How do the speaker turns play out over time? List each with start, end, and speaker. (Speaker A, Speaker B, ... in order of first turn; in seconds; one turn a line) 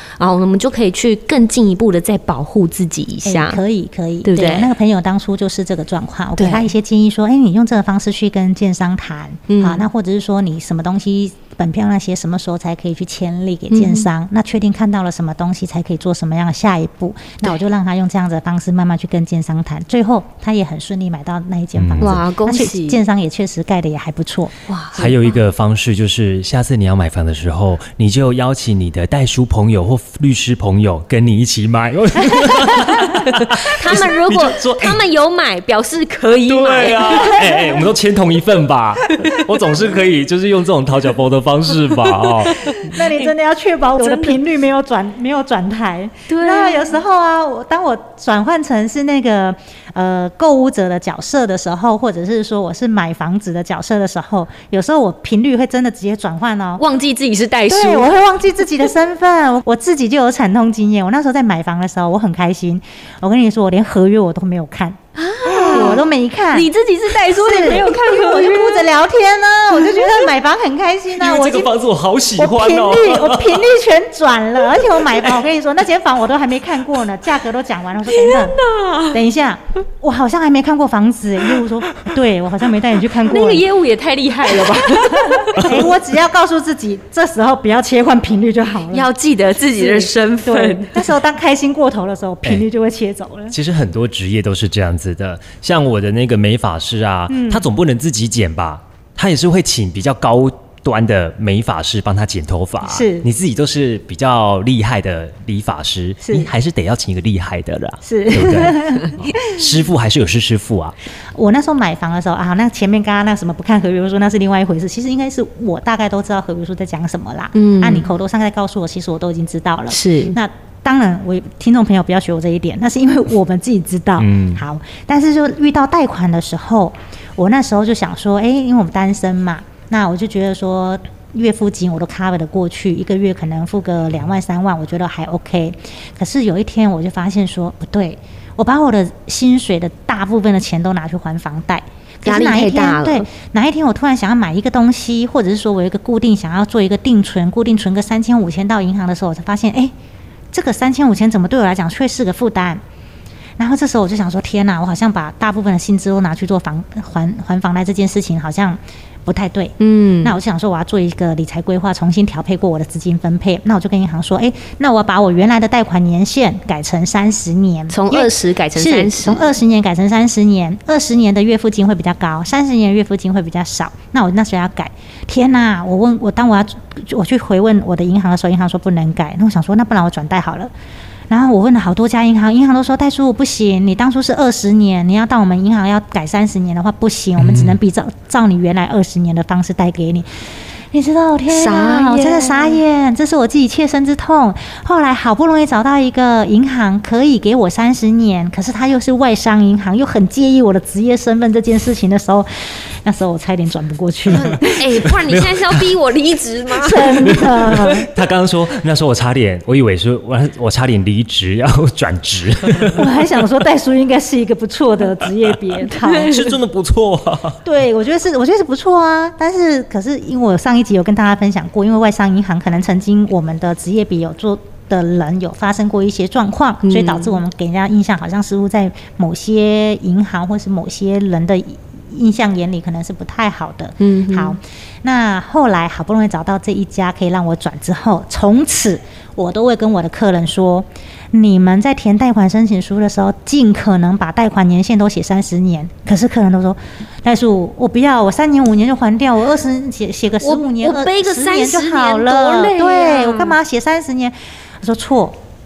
Speaker A: 0.2-3.6
Speaker B: 3.2-24.5
Speaker A: 4.2-4.7
Speaker A: 6.4-6.7
Speaker A: 9.5-9.8
Speaker A: 13.7-14.1
Speaker C: 21.8-22.2
Speaker A: 22.0-23.0
Speaker A: 24.7-25.2
Speaker C: 24.9-35.0
Speaker A: 32.6-37.9
Speaker C: 36.4-42.9
Speaker B: 37.1-37.6
Speaker A: 39.0-39.8
Speaker A: 41.8-42.9
Speaker B: 42.8-56.8
Speaker A: 44.0-44.4
Speaker A: 46.3-47.0
Speaker A: 56.8-58.2
Speaker B: 57.7-65.0
Speaker A: 65.2-68.9
Speaker B: 65.5-66.7
Speaker B: 67.2-71.7
Speaker A: 69.7-70.3
Speaker C: 71.2-73.8
Speaker B: 72.3-78.6
Speaker C: 74.7-75.4
Speaker A: 78.1-79.2
Speaker B: 79.1-83.7
Speaker A: 83.2-85.8
Speaker B: 85.3-89.1
Speaker C: 85.6-85.8
Speaker A: 88.9-91.1
Speaker B: 89.7-93.5
Speaker C: 93.5-110.9
Speaker B: 97.3-97.7
Speaker B: 102.8-103.3
Speaker B: 106.2-106.5
Speaker B: 108.0-109.6
Speaker B: 111.3-149.9
Speaker A: 117.5-118.1
Speaker A: 119.9-120.4
Speaker C: 124.2-124.6
Speaker A: 142.2-143.3
Speaker B: 150.5-152.8
Speaker B: 153.6-180.7
Speaker A: 159.8-160.4
Speaker A: 167.9-169.5
Speaker B: 181.3-204.7
Speaker C: 187.4-187.8
Speaker A: 191.5-192.8
Speaker C: 204.3-205.9
Speaker A: 204.4-207.9
Speaker B: 206.8-208.1
Speaker C: 207.2-213.2
Speaker B: 212.9-216.4
Speaker C: 215.4-217.6
Speaker A: 215.9-216.5
Speaker B: 217.6-255.3
Speaker A: 226.8-227.4
Speaker A: 234.0-234.6
Speaker A: 250.4-253.6